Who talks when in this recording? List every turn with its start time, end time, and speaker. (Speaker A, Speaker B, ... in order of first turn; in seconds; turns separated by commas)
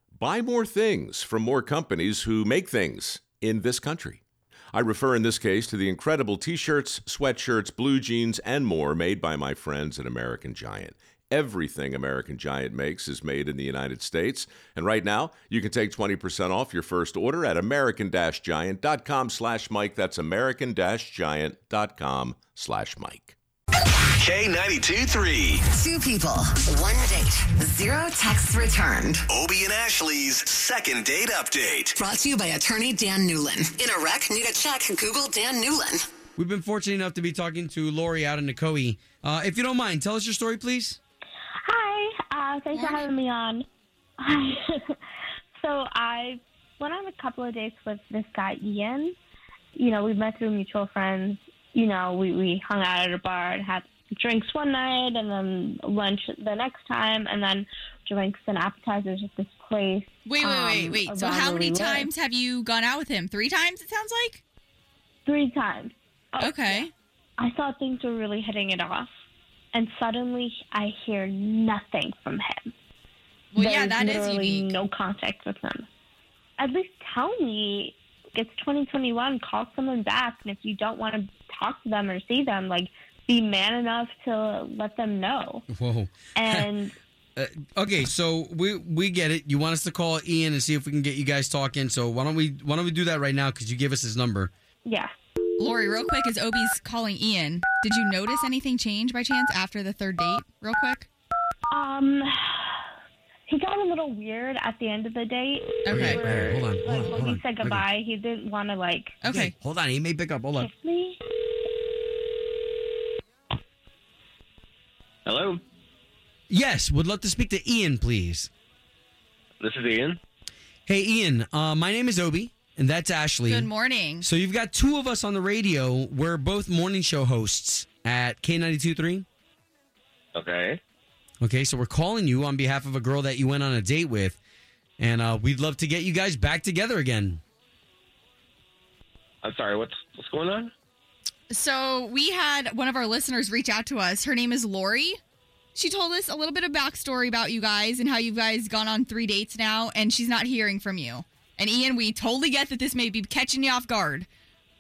Speaker A: 0.2-4.2, Speaker A: 4.7-23.4, Speaker B: 24.1-25.6, Speaker C: 25.7-29.3, Speaker B: 29.3-32.0, Speaker C: 32.0-36.0, Speaker D: 36.4-41.0, Speaker E: 41.6-43.6, Speaker F: 42.7-43.1, Speaker E: 44.2-45.0, Speaker E: 45.6-49.2, Speaker E: 49.8-62.1, Speaker F: 60.3-64.4, Speaker E: 65.3-66.8, Speaker F: 66.4-66.9, Speaker E: 67.4-69.1, Speaker E: 69.7-72.7, Speaker F: 73.5-74.7, Speaker E: 73.6-75.9, Speaker E: 76.6-85.7, Speaker D: 85.7-86.7, Speaker E: 86.3-86.9, Speaker D: 87.4-94.5, Speaker E: 94.8-95.1, Speaker F: 95.6-101.1, Speaker E: 101.7-102.8, Speaker E: 103.5-109.2, Speaker F: 105.9-106.2, Speaker D: 105.9-107.8, Speaker F: 109.2-109.5, Speaker D: 109.3-110.7, Speaker E: 110.6-111.2, Speaker G: 115.3-115.6, Speaker D: 116.5-118.5, Speaker G: 119.6-120.2, Speaker D: 120.9-123.7, Speaker F: 123.5-124.3, Speaker D: 124.2-129.2, Speaker G: 130.3-130.8, Speaker D: 131.4-134.4, Speaker D: 135.0-137.4, Speaker G: 139.4-140.7, Speaker F: 141.5-145.2, Speaker F: 145.8-154.3